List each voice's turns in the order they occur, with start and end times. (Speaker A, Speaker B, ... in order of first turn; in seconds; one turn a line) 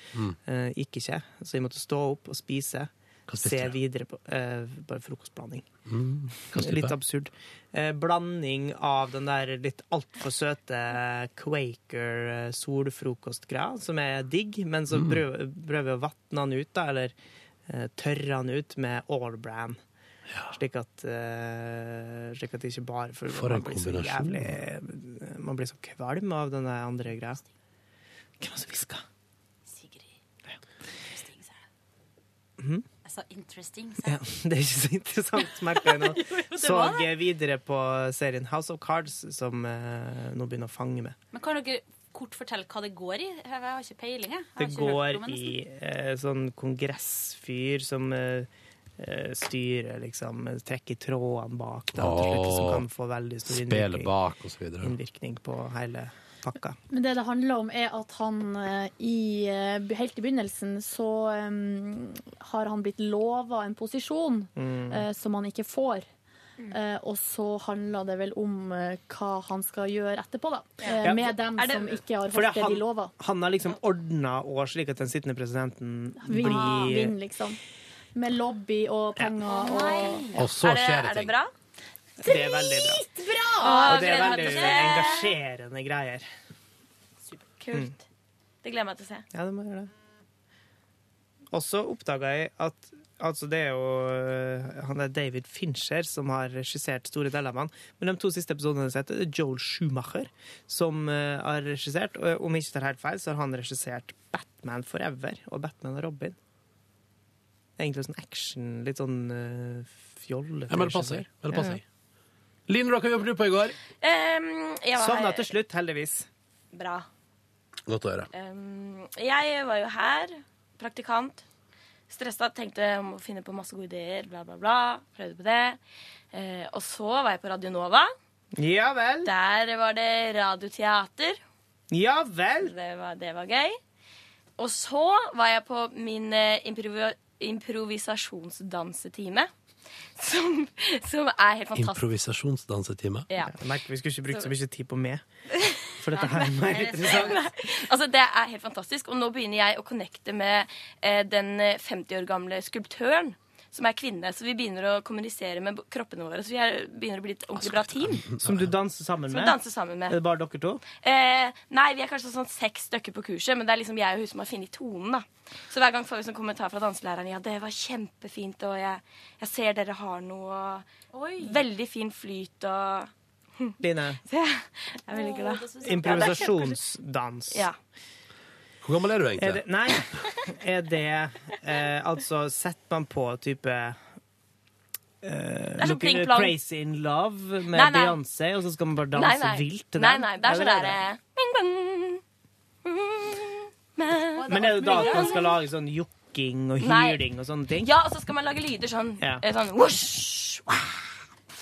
Speaker A: 0.4-5.7
Speaker B: 3.3-3.8
Speaker B: 5.9-7.0
Speaker A: 6.5-17.1
Speaker B: 14.9-15.2
Speaker A: 17.7-19.8
Speaker B: 20.3-20.5
Speaker A: 20.5-27.4
Speaker B: 23.3-24.6
Speaker A: 28.4-29.0
Speaker C: 29.7-30.1
Speaker C: 31.1-31.6
Speaker A: 32.6-32.9
Speaker C: 33.0-34.2
Speaker A: 34.0-41.2
Speaker C: 35.5-37.2
Speaker C: 41.3-45.6
Speaker A: 44.6-48.5
Speaker A: 49.0-54.1
Speaker B: 52.0-52.9
Speaker B: 53.5-55.0
Speaker A: 54.8-56.8
Speaker D: 56.9-66.1
Speaker A: 64.6-65.0
Speaker D: 66.7-73.1
Speaker A: 71.0-71.4
Speaker E: 71.6-72.0
Speaker A: 72.3-77.1
Speaker D: 76.2-77.6
Speaker D: 78.2-80.4
Speaker E: 79.5-81.5
Speaker B: 80.4-81.3
Speaker A: 82.2-83.1
Speaker D: 82.2-84.0
Speaker E: 83.6-85.3
Speaker A: 83.7-86.3
Speaker E: 87.3-88.0
Speaker E: 88.6-89.3
Speaker A: 89.3-89.9
Speaker A: 91.5-106.4
Speaker A: 107.8-111.8
Speaker B: 110.7-111.8
Speaker B: 112.7-113.8
Speaker E: 114.0-115.5
Speaker A: 115.0-116.3
Speaker E: 116.7-117.1
Speaker B: 117.9-118.3
Speaker E: 118.3-121.4
Speaker E: 122.1-125.8
Speaker E: 126.3-128.1
Speaker A: 128.6-129.3
Speaker E: 129.2-131.4
Speaker A: 131.9-132.7
Speaker E: 132.6-133.8
Speaker E: 134.6-139.5
Speaker E: 140.2-142.0
Speaker B: 141.8-143.3
Speaker A: 143.4-145.2
Speaker E: 145.7-158.3
Speaker A: 146.0-147.4
Speaker C: 146.7-147.3
Speaker B: 157.6-158.7
Speaker A: 158.4-159.6
Speaker E: 159.3-160.2
Speaker A: 160.1-160.8
Speaker E: 160.9-170.9
Speaker C: 171.1-171.7
Speaker E: 171.4-173.8
Speaker A: 173.8-174.2
Speaker E: 174.3-176.5
Speaker C: 175.1-176.8
Speaker A: 175.8-177.7
Speaker E: 177.5-177.8
Speaker B: 178.8-179.6
Speaker A: 179.4-184.0
Speaker A: 185.2-191.0
Speaker E: 185.8-186.6
Speaker E: 187.7-188.2
Speaker E: 189.2-192.2
Speaker E: 192.8-195.5
Speaker C: 194.4-195.5
Speaker A: 194.5-197.9
Speaker E: 196.8-197.2
Speaker E: 197.8-200.8